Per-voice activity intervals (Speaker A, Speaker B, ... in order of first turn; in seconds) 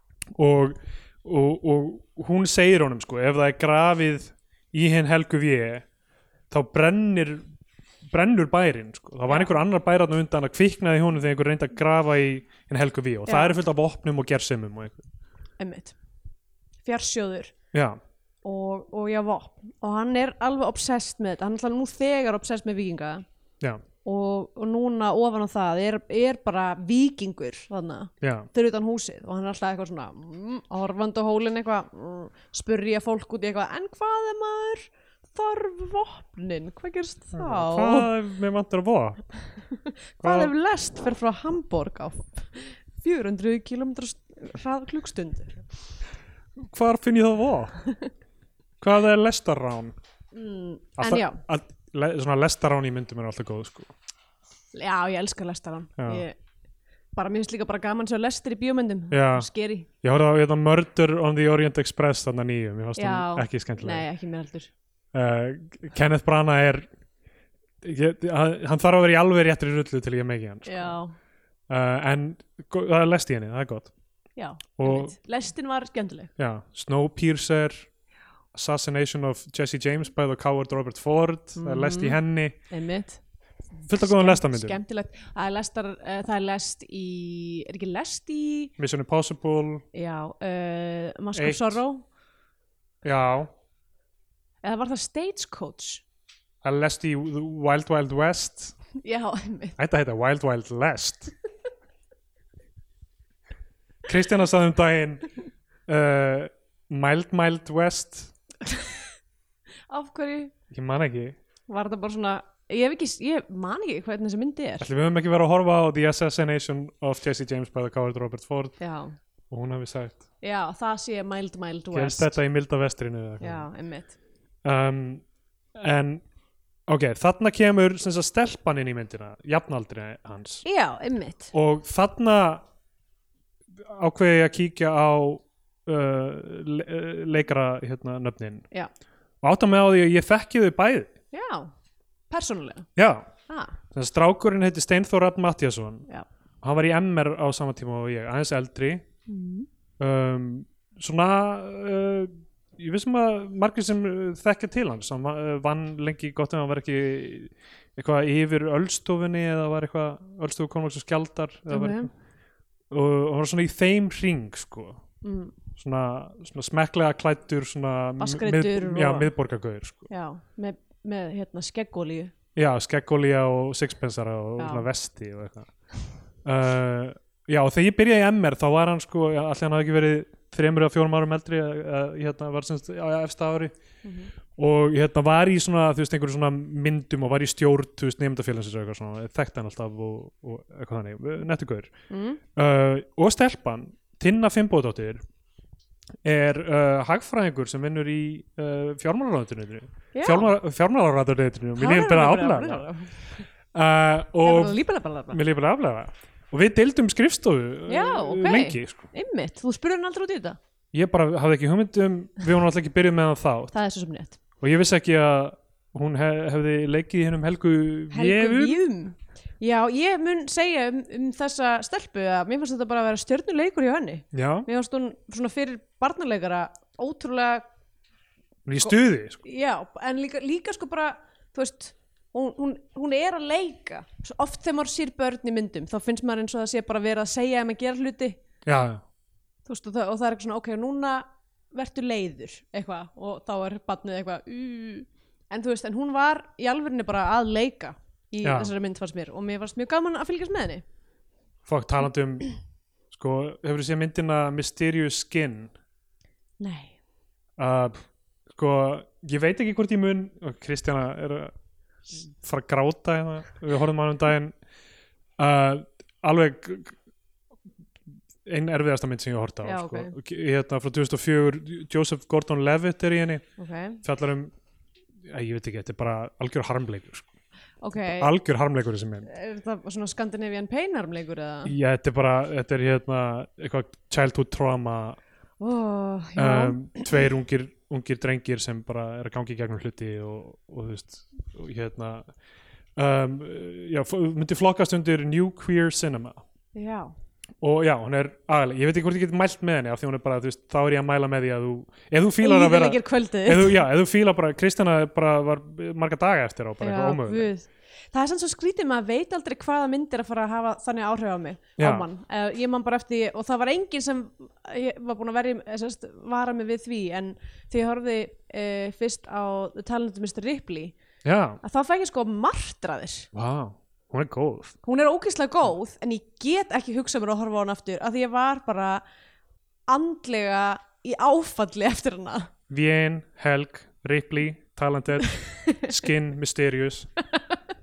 Speaker A: 0.4-5.8, 6.5-7.4, 8.1-15.1, 17.7-18.0, 28.2-28.5, 37.3-39.2, 40.2-40.5, 46.6-47.8, 48.8-49.9, 51.0-53.9, 56.0-56.2, 59.1-59.5, 60.0-64.1, 65.1-66.9, 67.8-70.9, 71.7-73.9, 74.8-75.1, 76.4-77.9, 78.5-82.5, 83.9-84.8, 88.8-89.8, 91.3-91.8, 93.0-93.5, 96.6-98.7, 99.8-101.3, 104.0-105.3, 105.9-108.3, 110.7-111.4, 114.8-118.8, 119.5-120.2, 121.9-123.7, 124.6-125.2, 125.8-126.2, 126.9-130.6, 131.5-132.6, 133.8-138.7, 139.4-141.1, 142.9-143.3, 143.9-146.1, 146.6-149.1, 150.0-162.1, 162.9-165.0, 165.7-170.1, 172.6-175.7, 176.4-183.7, 184.6-191.9, 192.6-195.2, 196.2-202.8, 203.7-204.8, 205.3-209.1, 210.9-213.7, 214.6-218.8, 224.3-224.7, 228.7-229.4, 238.7-239.0, 248.4-248.7, 251.7-252.5, 253.1-255.7, 257.6-261.5, 262.2-264.5, 265.4-267.0, 268.4-273.4, 274.0-274.5, 275.3-277.3, 278.0-279.3, 281.6-285.2, 286.4-292.3, 293.0-296.4, 297.6-307.5, 311.8-312.1, 321.2-321.6, 323.3-324.7, 332.7-337.1
Speaker B: 9.3-9.5, 13.2-13.5, 15.6-15.9, 16.8-17.5, 18.4-23.2, 24.0-38.1, 39.6-45.7, 50.3-51.4, 54.7-56.4, 57.1-59.9, 63.0-64.7, 70.7-71.1, 74.3-76.3, 81.6-82.2, 82.7-83.2, 84.0-88.7, 89.9-92.0, 94.6-96.0, 99.0-99.8, 108.7-109.0, 109.9-110.5, 111.7-114.8, 118.8-119.1, 120.4-122.3, 123.4-124.1, 130.6-131.5, 141.3-141.7, 142.3-142.9, 143.5-143.7, 149.2-149.7, 161.7-162.1, 165.2-165.6, 168.2-169.3, 170.1-172.3, 174.6-174.8, 184.0-184.3, 192.1-192.4, 200.1-200.5, 201.8-203.4, 204.4-205.4, 207.9-210.6, 213.7-214.4, 218.1-227.6, 228.8-238.4, 239.7-250.8, 256.6-256.9, 269.6-270.1, 273.6-274.0, 277.8-278.3, 279.3-281.7, 285.6-287.0, 296.7-297.1, 302.4-303.8, 306.8-320.9, 321.6-323.3, 324.8-329.0, 329.9-332.5, 335.4-335.9, 337.3-337.6